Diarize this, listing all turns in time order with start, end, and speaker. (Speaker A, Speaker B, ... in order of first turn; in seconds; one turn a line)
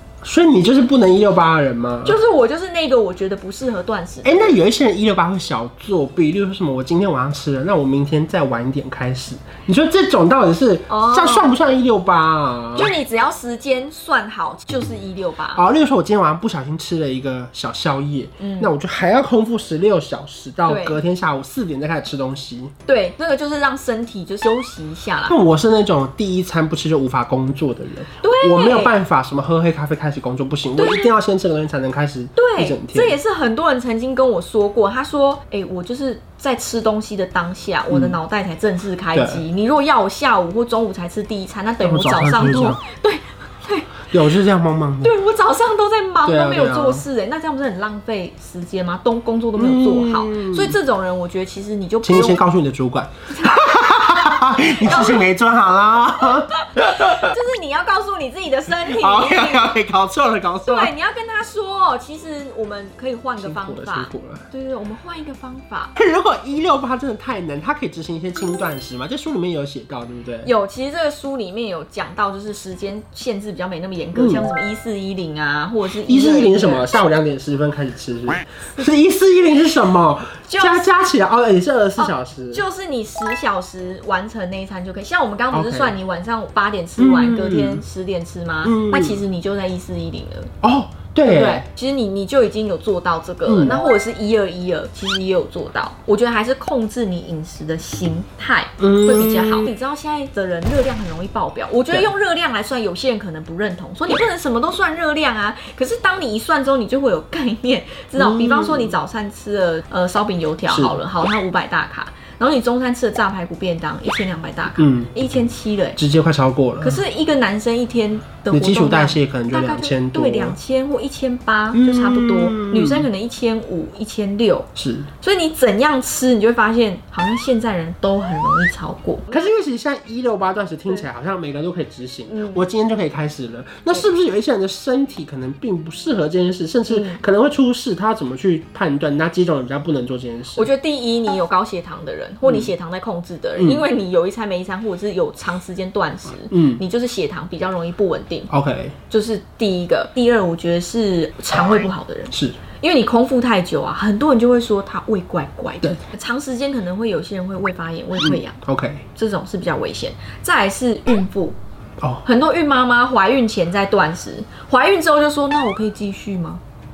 Speaker A: 0.2-2.2
Speaker B: 2.0-4.5
Speaker A: 4.2-12.9
Speaker B: 10.9-11.6
Speaker B: 12.8-15.6
Speaker A: 15.5-22.7
Speaker B: 18.4-18.7
Speaker B: 20.6-21.0
Speaker B: 22.9-25.4
Speaker A: 25.3-33.2
Speaker B: 28.2-28.9
Speaker B: 30.8-31.1
Speaker B: 32.4-44.1
Speaker A: 37.9-38.2
Speaker A: 39.1-39.4
Speaker A: 41.8-42.8
Speaker A: 44.1-45.2
Speaker B: 45.0-52.4
Speaker A: 46.2-47.0
Speaker A: 49.5-50.8
Speaker A: 52.0-57.3
Speaker B: 53.3-55.2
Speaker B: 56.2-59.7
Speaker A: 58.7-60.9
Speaker B: 60.6-65.9
Speaker A: 63.4-64.5
Speaker A: 66.0-70.5
Speaker B: 70.4-76.9
Speaker A: 74.1-74.5
Speaker A: 76.0-82.6
Speaker B: 80.5-80.9
Speaker B: 82.0-90.5
Speaker A: 85.5-86.0
Speaker A: 87.0-87.8
Speaker A: 88.6-89.2
Speaker A: 90.6-91.7
Speaker B: 91.2-116.0
Speaker A: 93.5-93.8
Speaker A: 98.8-99.7
Speaker A: 108.2-109.0
Speaker A: 110.7-111.0
Speaker A: 114.8-115.1
Speaker A: 116.0-117.0
Speaker B: 116.8-124.7
Speaker A: 118.5-120.6
Speaker A: 121.7-123.1
Speaker A: 124.8-125.1
Speaker B: 125.2-129.3
Speaker A: 129.3-140.7
Speaker B: 132.3-132.7
Speaker B: 136.9-137.2
Speaker B: 140.5-148.5
Speaker A: 143.6-143.8
Speaker A: 146.5-146.8
Speaker A: 148.5-148.9
Speaker B: 149.1-158.6
Speaker A: 152.3-152.6
Speaker A: 158.2-159.0
Speaker B: 159.1-161.6
Speaker A: 162.0-162.2
Speaker B: 162.2-166.6